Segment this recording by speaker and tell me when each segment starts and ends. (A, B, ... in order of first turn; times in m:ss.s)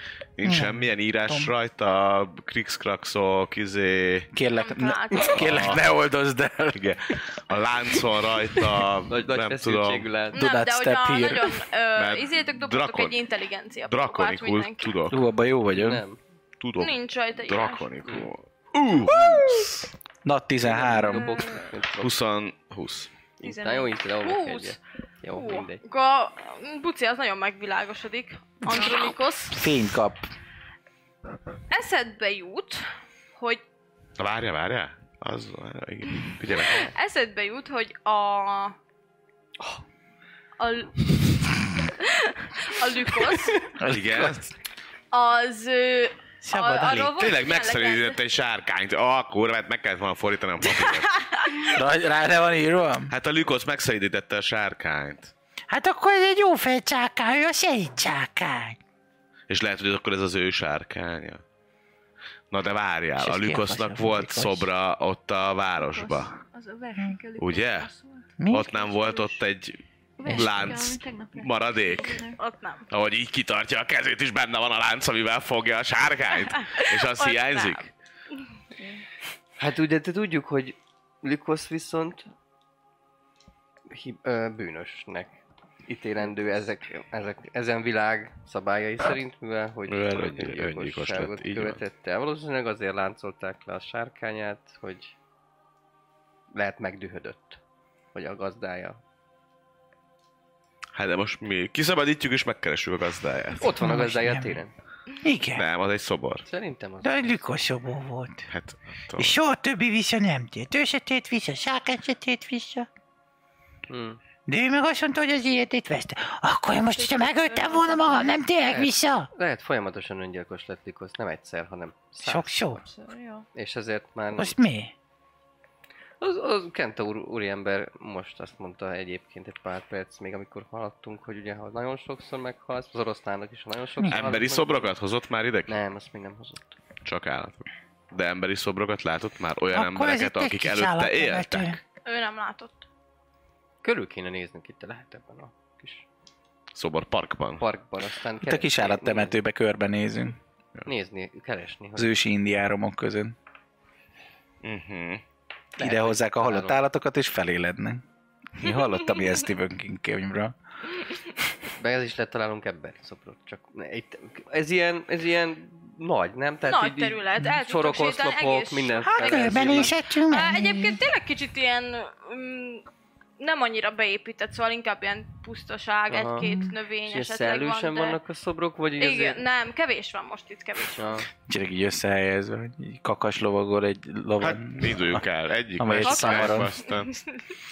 0:00.4-0:04.3 A
0:00.4-0:01.5 B
0:04.3-0:06.9 C
0:04.6-0:05.6 D
0:05.3-0:05.8 A
0:06.7-0:10.1 A
0:09.1-0:10.4 E
0:10.3-0:11.5 C
0:10.3-0:14.9 D
0:12.0-0:13.2 A
0:13.9-0:15.2 A
0:15.1-0:16.0 C
0:15.7-0:16.2 E
0:16.6-0:19.8 A
0:16.8-0:17.9 D
0:20.2-0:21.3 C
0:20.6-0:22.1 E
0:21.0-0:21.8 F
0:22.0-0:23.1 A
0:23.4-0:25.8 E
0:23.4-0:24.0 F
0:24.2-0:24.8 D
0:25.3-0:29.6 D
0:28.7-0:29.2 F
0:29.5-0:30.3 C
0:31.7-0:33.6 D
0:34.2-0:36.9 A
0:36.6-0:38.7 D
0:40.6-0:41.1 D
0:42.0-0:43.6 D
0:43.8-0:44.4 C
0:43.8-0:44.5 A
0:45.1-0:48.2 D
0:46.4-0:47.1 B
0:47.1-0:51.1 A
0:50.6-0:51.7 D
0:51.7-0:53.1 C
0:53.1-0:55.3 A
0:55.7-0:58.8 B
0:59.5-1:01.4 A
1:02.5-1:06.4 A
1:03.2-1:04.7 B
1:05.8-1:09.4 F
1:07.4-1:07.9 A
1:08.4-1:08.7 B
1:08.5-1:12.2 A
1:10.2-1:12.4 F
1:12.4-1:12.9 D
1:12.9-1:17.9 A
1:16.4-1:17.9 D
1:18.8-1:19.0 F
1:19.6-1:22.3 E
1:23.9-1:35.1 E
1:29.9-1:31.8 A
1:36.5-1:37.6 E
1:38.1-1:39.0 E
1:40.9-1:43.8 A
1:43.6-1:44.7 E
1:43.8-1:44.6 B
1:45.2-1:45.6 B
1:45.5-1:46.4 A
1:46.4-1:47.4 E
1:47.0-1:48.4 B
1:48.5-1:49.4 A
1:49.2-1:52.9 B
1:53.9-1:54.2 E
1:54.5-1:59.3 B
1:56.8-1:58.4 F
1:58.7-2:02.7 E
2:02.2-2:02.8 B
2:02.8-2:03.4 F
2:03.5-2:04.6 E
2:04.3-2:04.9 B
2:06.2-2:14.9 E
2:14.0-2:14.3 B
2:14.1-2:15.7 A
2:15.7-2:16.8 E
2:17.0-2:21.8 A
2:19.7-2:21.8 B
2:22.0-2:22.8 D
2:23.8-2:26.0 E
2:26.7-2:27.6 A
2:27.6-2:29.4 E
2:28.4-2:30.4 C
2:30.8-2:32.1 E
2:32.0-2:33.3 C
2:34.6-2:35.2 A
2:35.8-2:36.8 E
2:35.8-2:38.0 C
2:38.6-2:40.5 C
2:38.6-2:39.3 D
2:41.8-2:50.0 E
2:46.6-2:52.8 D
2:49.0-2:51.0 B
2:53.4-2:58.2 D
2:56.1-2:56.5 E
2:56.4-2:56.7 B
2:57.0-2:59.4 E
2:59.0-3:01.2 D
3:01.0-3:01.3 E
3:01.5-3:05.2 C
3:04.4-3:07.1 A
3:05.8-3:06.7 C
3:06.0-3:07.4 D